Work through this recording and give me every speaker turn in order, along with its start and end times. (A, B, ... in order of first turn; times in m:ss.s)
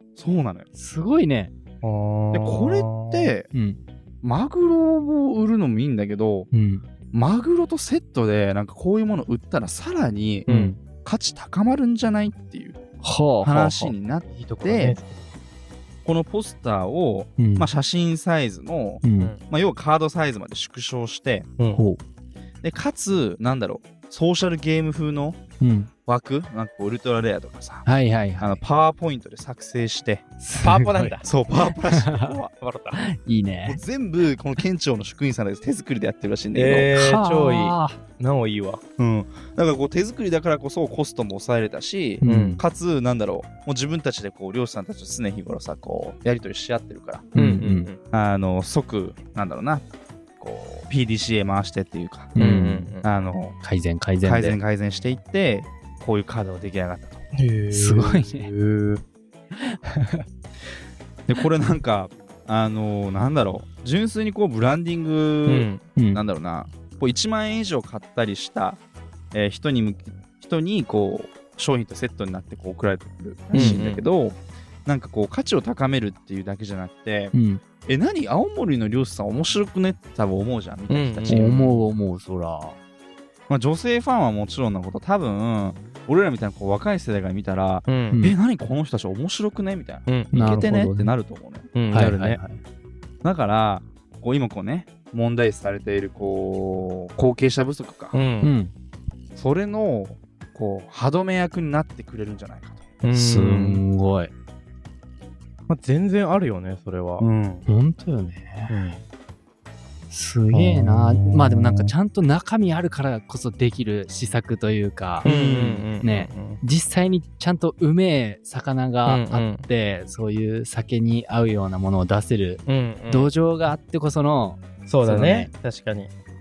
0:00.2-0:00.7 A
0:00.7-0:01.5 B
0:01.8-0:03.3 C
0:02.3-0:03.5 A
0:03.5-0:03.8 B
0:04.2-0:06.5 A
0:06.5-0:06.8 B
0:07.1-0:10.5 A
0:10.5-0:10.8 C
0:10.5-0:10.8 B
0:11.0-0:12.8 A
0:13.0-0:13.9 B
0:13.4-0:15.0 A
0:14.3-0:15.2 C
0:16.0-0:21.5 A
0:17.4-0:17.7 B
0:19.0-0:19.3 B
0:21.7-0:22.0 B
0:22.6-0:25.4 A
0:25.6-0:25.9 B
0:26.0-0:27.9 A
0:27.8-0:28.6 B
0:28.4-0:30.2 A
0:30.4-0:31.2 B
0:30.6-0:31.3 C
0:31.2-0:32.5 A
0:31.9-0:32.3 B
0:32.6-0:33.0 C
0:32.9-0:33.8 B
0:33.6-0:36.9 A
0:36.5-0:38.8 C
0:36.9-0:38.0 B
0:39.0-0:47.3 A
0:42.2-0:42.6 B
0:42.2-0:42.6 C
0:47.3-0:47.9 B
0:47.3-0:48.0 C
0:48.1-0:49.8 A
0:50.4-0:52.3 A
0:52.4-0:52.9 B
0:52.4-0:53.0 C
0:53.0-0:53.6 A
0:53.6-0:54.6 B
0:54.2-0:57.2 A
0:57.3-0:59.0 C
0:57.7-0:58.5 B
0:59.6-1:00.2 B
1:01.3-1:08.8 A
1:05.5-1:05.8 C
1:06.0-1:06.2 B
1:09.3-1:17.3 A
1:13.5-1:14.0 C
1:13.5-1:13.8 B
1:17.3-1:17.6 B
1:17.8-1:21.7 A
1:20.9-1:21.7 C
1:21.3-1:22.8 B
1:23.5-1:31.7 A
1:27.9-1:28.2 C
1:30.0-1:30.5 C
1:30.3-1:31.1 B
1:31.7-1:32.4 C
1:31.9-1:32.6 B
1:33.2-1:38.2 A
1:38.1-1:38.5 C
1:38.4-1:38.7 B
1:39.4-1:42.9 A
1:43.0-1:43.8 C
1:43.1-1:44.3 B
1:45.7-1:47.2 C
1:47.2-1:47.6 A
1:47.7-1:48.7 B
1:48.7-1:49.0 C
1:50.1-1:55.3 B
1:50.5-1:51.9 C
1:55.2-1:56.6 C
1:55.2-1:55.8 A
1:56.0-2:05.5 B
1:59.0-1:59.6 C
2:02.6-2:03.3 C
2:04.9-2:06.1 C